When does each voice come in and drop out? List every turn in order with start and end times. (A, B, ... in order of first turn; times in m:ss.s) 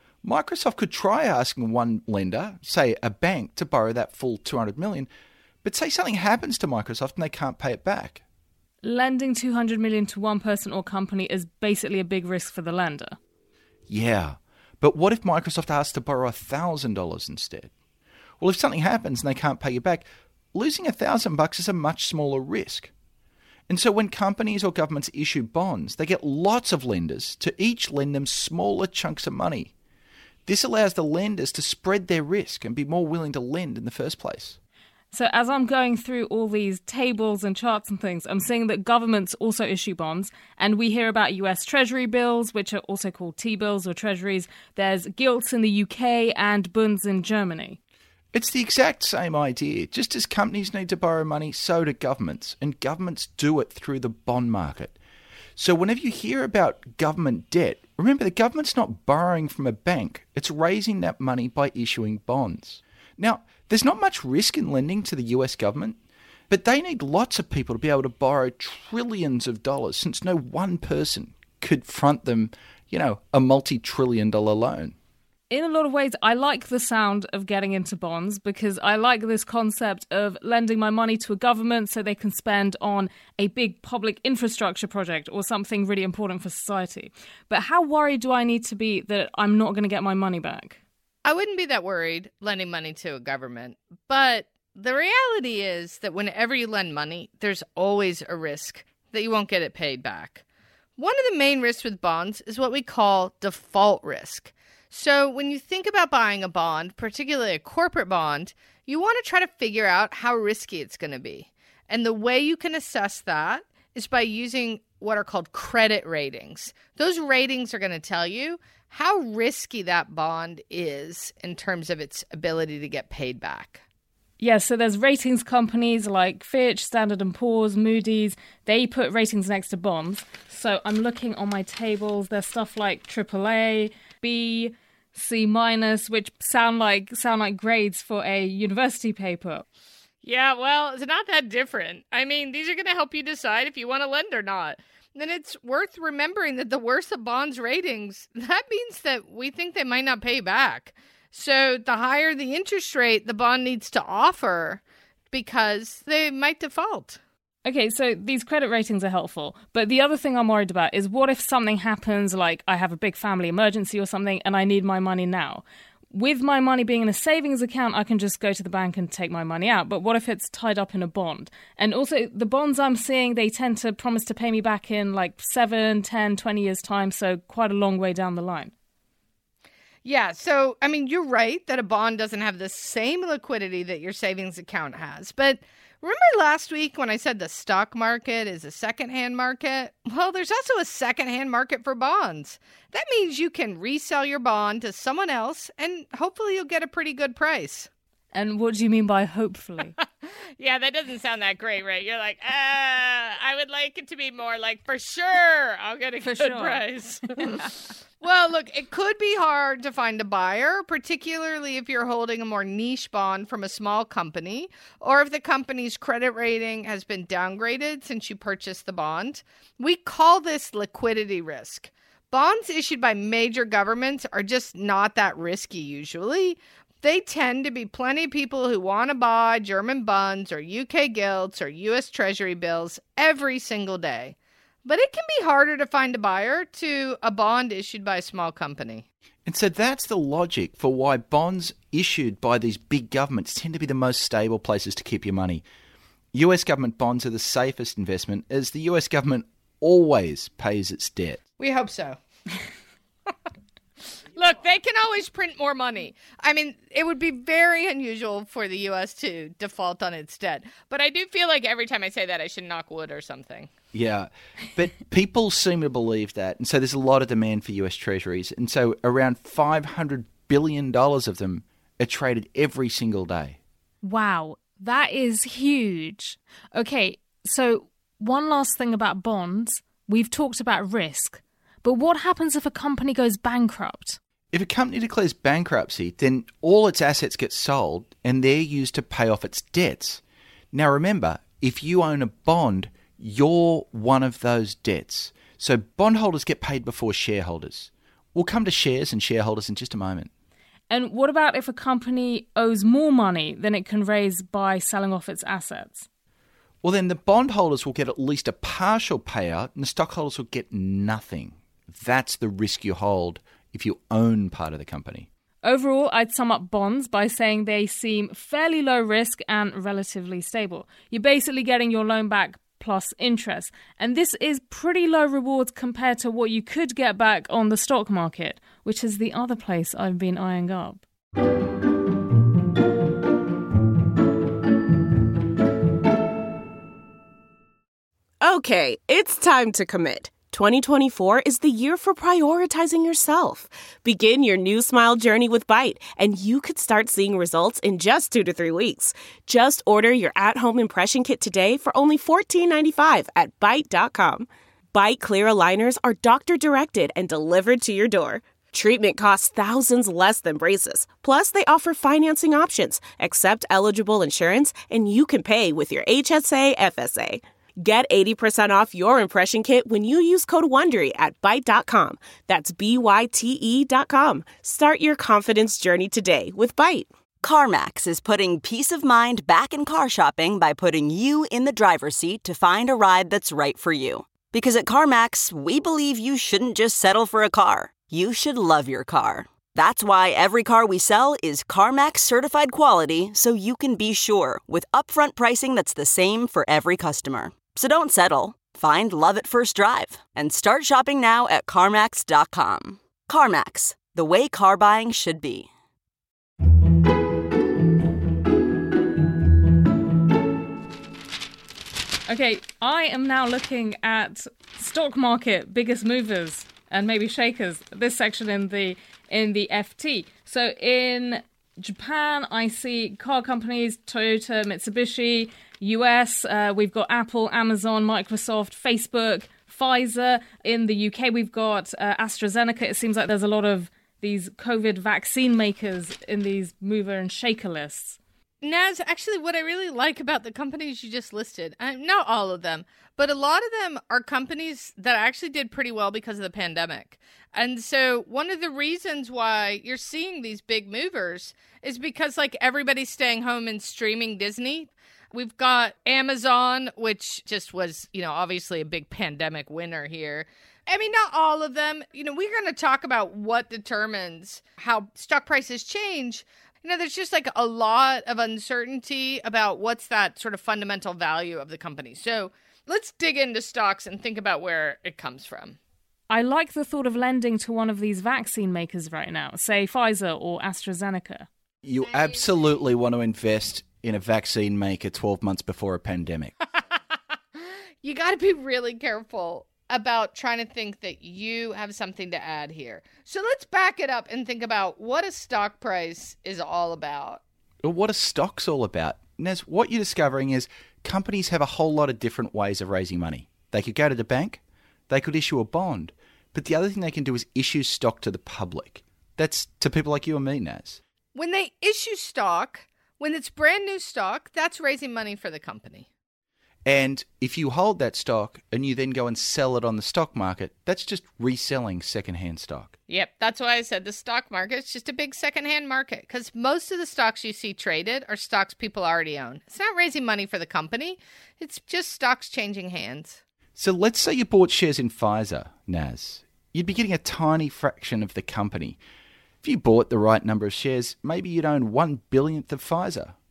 0:00.2-0:05.1 A
0:05.6-0:08.2 A
0:08.8-0:13.2 B
0:13.9-0:17.7 A
0:18.4-0:22.9 A
0:23.7-0:29.7 A
0:30.5-0:34.6 A
0:35.1-0:47.8 B
0:48.3-0:55.0 A
0:55.6-1:06.0 A
1:06.5-1:15.0 A
1:15.5-1:30.8 B
1:31.2-1:40.4 C
1:41.0-2:03.8 C
2:04.4-2:19.7 B
2:20.2-2:34.8 C
2:35.3-2:37.2 C
2:37.6-2:58.7 B
3:00.0-3:17.9 C
3:18.3-3:19.9 B
3:20.6-3:59.1 C
3:26.2-3:27.7 B
3:59.4-4:05.6 A
4:06.3-4:11.4 A
4:11.6-4:12.2 C
4:14.3-4:23.7 C
4:23.9-4:33.6 A
4:34.0-4:44.2 B
4:44.5-4:50.2 A
4:50.7-5:00.3 A
5:00.9-5:06.1 B
5:06.8-5:15.3 A
5:15.6-5:31.0 B
5:38.4-6:17.1 D
6:17.4-6:45.7 E
6:52.3-7:18.2 B
7:18.6-7:55.8 C
7:56.3-8:01.5 B
8:01.8-8:06.5 A
8:08.0-8:17.4 C
8:17.8-8:31.0 A
8:31.3-8:36.1 C
8:36.8-8:42.9 A
8:43.1-8:53.4 C
8:53.8-8:59.0 A
8:59.6-9:03.4 A